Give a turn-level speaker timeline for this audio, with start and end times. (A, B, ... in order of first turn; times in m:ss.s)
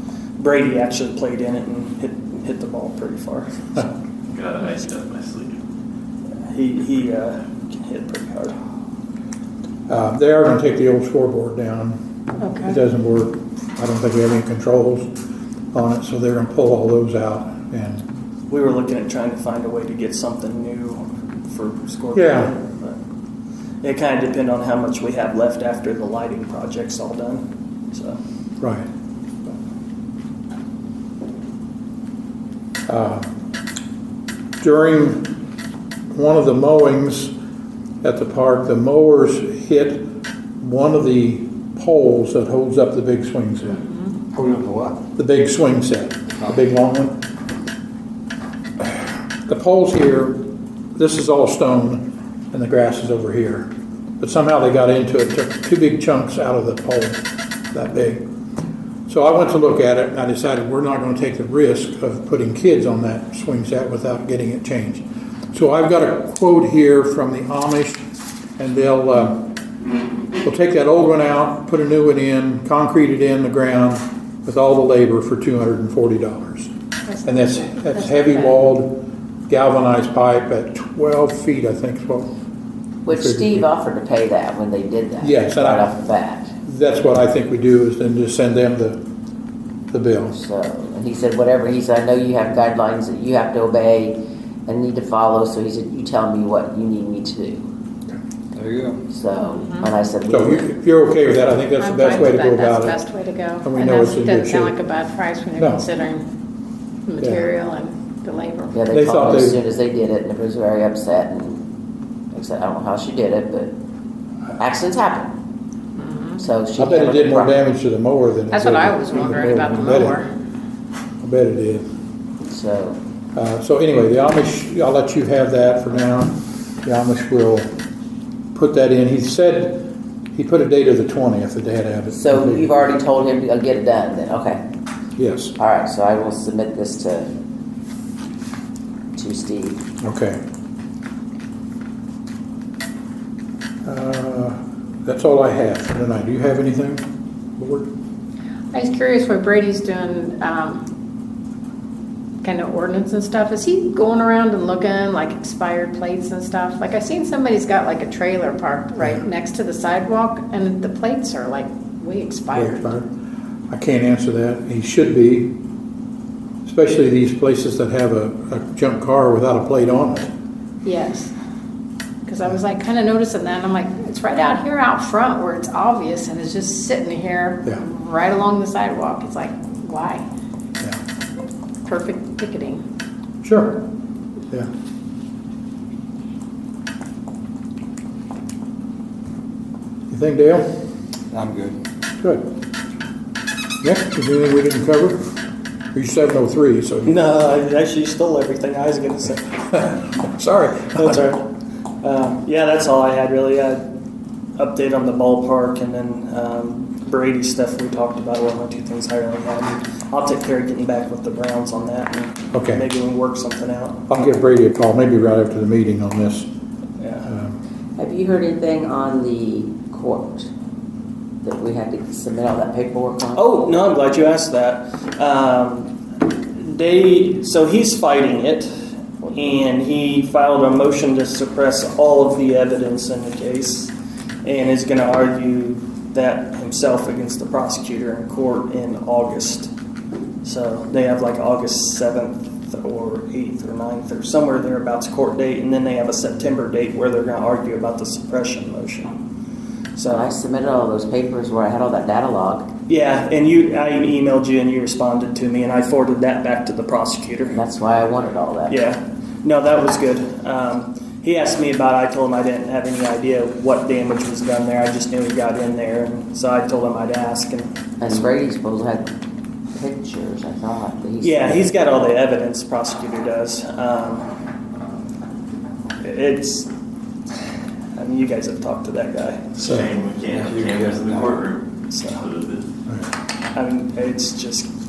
0:00.4-0:03.9 A
0:04.3-0:05.6 B
0:06.4-0:08.5 A
0:09.9-0:12.0 C
0:12.4-0:12.8 D
0:12.6-0:15.2 C
0:15.7-0:18.0 C
0:18.5-0:23.0 A
0:22.1-0:22.5 C
0:23.8-0:28.2 A
0:28.6-0:28.9 C
0:32.9-0:33.3 C
0:34.6-0:35.3 C
0:36.1-0:37.3 C
0:38.0-0:43.8 C
0:44.3-0:45.0 E
0:45.2-0:47.2 C
0:48.8-0:50.4 C
0:51.0-0:58.2 C
0:59.1-1:08.0 C
1:08.6-1:09.5 C
1:10.4-1:16.7 C
1:17.1-1:18.5 D
1:17.2-1:22.3 C
1:23.0-1:26.5 F
1:23.1-1:23.7 C
1:25.2-1:25.9 C
1:26.6-1:29.0 C
1:29.9-1:30.4 C
1:30.3-1:37.7 F
1:38.5-1:39.0 E
1:39.1-1:40.8 F
1:39.5-1:39.9 D
1:40.3-1:43.0 C
1:41.8-1:46.2 D
1:43.6-1:44.8 C
1:45.6-1:45.8 C
1:47.1-1:48.8 D
1:48.7-1:51.7 F
1:48.9-1:49.6 C
1:52.3-1:53.8 F
1:54.6-1:55.3 F
1:56.0-1:56.4 D
1:56.4-1:57.6 F
1:56.8-2:00.2 C
1:58.5-2:00.3 D
2:01.2-2:01.9 C
2:02.5-2:03.0 F
2:03.4-2:07.8 C
2:08.5-2:12.8 C
2:12.1-2:14.6 F
2:15.2-2:15.6 C
2:15.6-2:17.3 F
2:19.2-2:19.8 F
2:20.0-2:20.4 C
2:23.8-2:27.1 C
2:27.6-2:27.9 C
2:28.7-2:30.9 D
2:32.4-2:42.8 D
2:42.5-2:43.1 C
2:43.7-2:45.6 C
2:46.6-2:50.3 C
2:50.8-2:51.3 D
2:52.2-3:00.2 D
3:01.8-3:02.8 D
3:03.4-3:03.9 C
3:10.1-3:10.8 C
3:11.3-3:11.8 E
3:12.2-3:12.4 C
3:13.8-3:15.3 C
3:15.9-3:17.2 C
3:17.1-3:19.6 A
3:19.7-3:21.2 C
3:20.9-3:21.5 A
3:22.0-3:23.8 A
3:24.6-3:34.0 A
3:32.5-3:32.8 C
3:34.1-3:36.5 C
3:37.0-3:37.3 A
3:37.2-3:37.6 C
3:38.0-3:40.5 F
3:41.4-3:43.5 F
3:43.3-3:45.9 A
3:46.6-3:48.7 A
3:49.3-3:53.9 A
3:54.4-3:59.7 A
4:00.4-4:09.1 A
4:10.0-4:10.3 A
4:10.1-4:12.7 F
4:12.9-4:17.6 A
4:17.5-4:18.8 F
4:18.7-4:28.2 A
4:28.0-4:29.1 F
4:29.8-4:31.7 F
4:31.2-4:34.3 A
4:36.0-4:36.7 A
4:38.0-4:39.7 A
4:39.6-4:42.7 B
4:40.2-4:41.6 E
4:41.9-4:42.2 A
4:43.5-4:44.7 A